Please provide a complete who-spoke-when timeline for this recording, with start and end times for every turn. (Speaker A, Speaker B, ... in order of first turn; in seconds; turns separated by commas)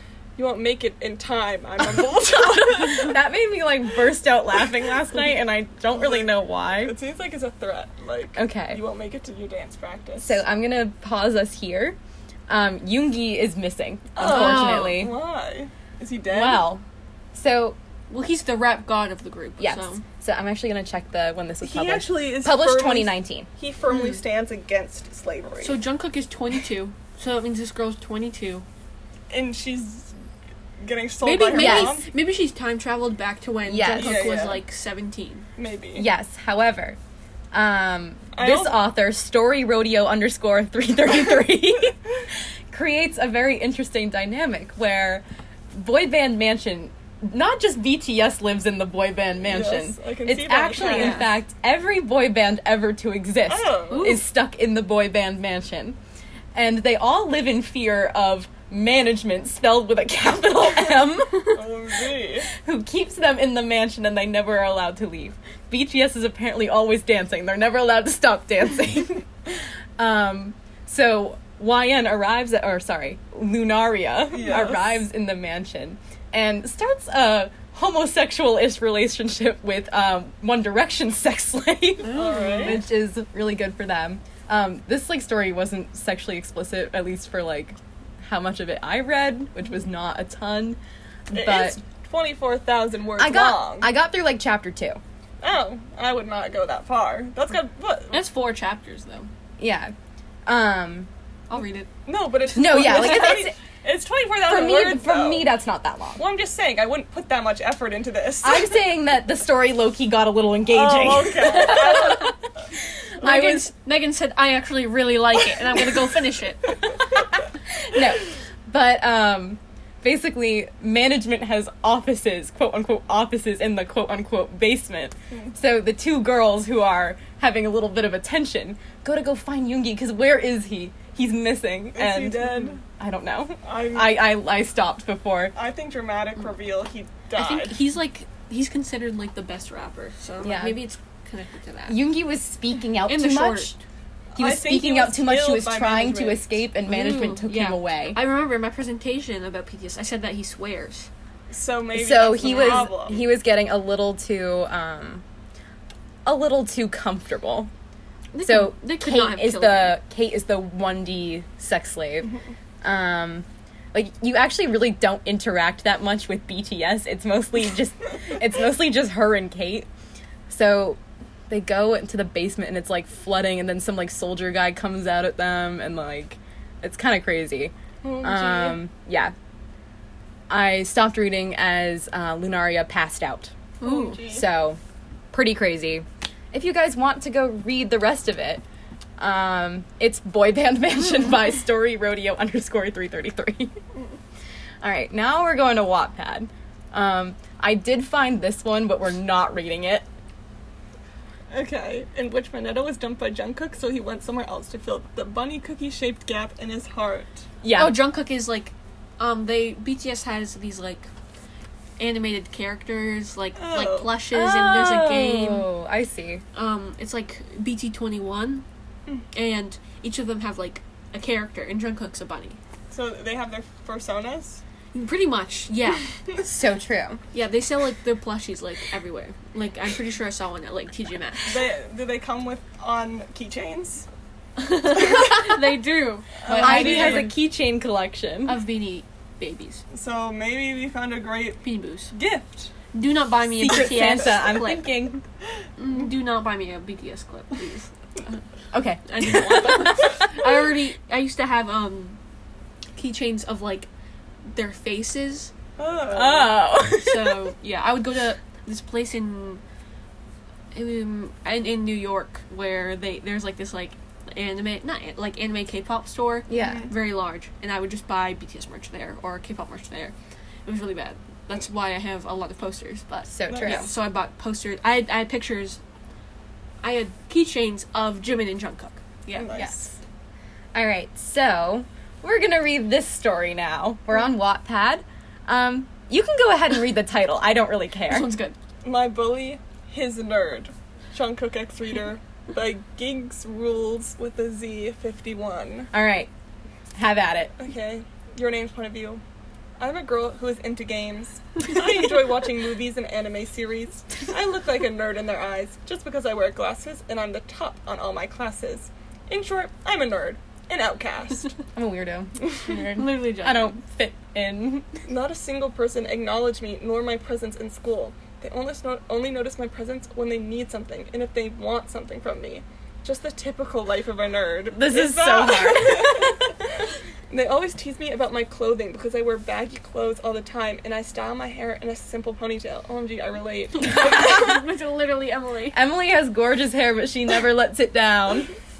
Speaker A: 0.4-3.2, Speaker B: 2.0-6.9, Speaker A: 5.9-10.4, Speaker B: 8.3-8.8, Speaker B: 10.2-12.0, Speaker B: 12.5-15.1, Speaker A: 14.2-16.6, Speaker C: 14.2-15.0, Speaker B: 16.3-16.8, Speaker B: 17.3-17.8, Speaker C: 18.1-20.0, Speaker B: 19.6-23.5, Speaker A: 21.6-25.8, Speaker C: 25.6-28.6, Speaker A: 29.3-30.1, Speaker A: 30.8-32.0, Speaker C: 31.2-35.5, Speaker B: 31.5-32.0, Speaker B: 33.7-34.4, Speaker A: 34.0-34.6, Speaker A: 35.6-36.1, Speaker B: 36.0-37.0, Speaker B: 37.5-56.0, Speaker A: 38.3-38.8, Speaker A: 49.4-51.3, Speaker C: 50.8-51.3, Speaker A: 53.5-54.1, Speaker C: 53.9-54.2, Speaker B: 56.5-61.6, Speaker A: 61.4-62.5, Speaker B: 62.5-90.8, Speaker A: 74.3-75.0, Speaker C: 82.0-82.8, Speaker A: 82.1-82.8, Speaker B: 91.3-91.8, Speaker A: 91.3-93.9, Speaker B: 93.2-95.0, Speaker A: 95.4-98.2, Speaker C: 98.1-99.3, Speaker B: 99.6-99.9, Speaker B: 100.5-101.1, Speaker C: 101.5-101.9, Speaker A: 102.0-105.5, Speaker B: 102.5-103.5, Speaker C: 102.5-103.4, Speaker B: 104.5-106.2, Speaker A: 106.2-108.7, Speaker B: 108.4-113.7, Speaker A: 110.7-112.3, Speaker C: 111.6-112.3, Speaker C: 113.2-116.8, Speaker B: 117.7-135.5, Speaker A: 131.9-132.8, Speaker A: 133.6-134.2, Speaker A: 135.5-137.8, Speaker C: 137.3-142.0, Speaker B: 140.4-140.8, Speaker B: 141.9-143.8, Speaker C: 143.1-143.7, Speaker A: 144.3-146.6, Speaker B: 144.4-148.2, Speaker C: 146.9-151.1, Speaker A: 151.5-153.2, Speaker B: 151.9-155.2, Speaker C: 152.4-152.9, Speaker B: 156.2-157.7, Speaker C: 158.3-160.0, Speaker B: 158.4-169.9, Speaker B: 170.5-179.3, Speaker A: 178.0-178.8, Speaker B: 180.5-183.5, Speaker C: 183.8-184.2, Speaker A: 183.8-184.5, Speaker B: 184.3-184.8, Speaker B: 185.3-188.6, Speaker B: 189.2-193.8, Speaker B: 194.8-200.1, Speaker A: 201.5-207.4, Speaker B: 207.6-208.0, Speaker C: 207.7-211.1, Speaker C: 212.0-215.7, Speaker A: 213.6-214.2, Speaker B: 214.3-216.4, Speaker C: 216.5-218.6, Speaker C: 219.3-222.6, Speaker A: 222.9-224.6, Speaker C: 224.9-226.1, Speaker B: 226.4-227.2, Speaker C: 227.3-231.6, Speaker A: 231.4-234.1, Speaker C: 234.6-237.3, Speaker A: 236.4-237.3, Speaker B: 236.6-238.6, Speaker C: 238.4-239.8, Speaker A: 239.9-241.6, Speaker C: 241.6-242.1, Speaker A: 242.1-242.7, Speaker C: 242.9-244.8, Speaker B: 243.5-245.2, Speaker A: 243.7-244.4, Speaker C: 245.8-248.4, Speaker B: 248.7-250.5, Speaker C: 249.0-252.2, Speaker C: 252.9-253.9, Speaker C: 254.5-255.5, Speaker A: 255.8-256.5, Speaker B: 256.1-257.5, Speaker C: 257.0-259.6, Speaker C: 260.7-275.8, Speaker B: 266.5-266.9, Speaker A: 266.5-266.9, Speaker B: 273.3-273.9, Speaker A: 273.5-273.9, Speaker C: 276.8-279.6, Speaker A: 279.3-279.9, Speaker B: 279.5-279.9, Speaker B: 280.7-288.3, Speaker C: 288.1-288.5, Speaker A: 288.8-295.9, Speaker B: 295.9-296.3, Speaker B: 296.9-297.5, Speaker A: 297.6-299.2, Speaker A: 299.8-311.6, Speaker B: 311.7-314.9, Speaker C: 312.7-313.7, Speaker A: 315.1-334.6, Speaker B: 324.7-326.5, Speaker C: 333.8-335.8, Speaker B: 335.7-338.5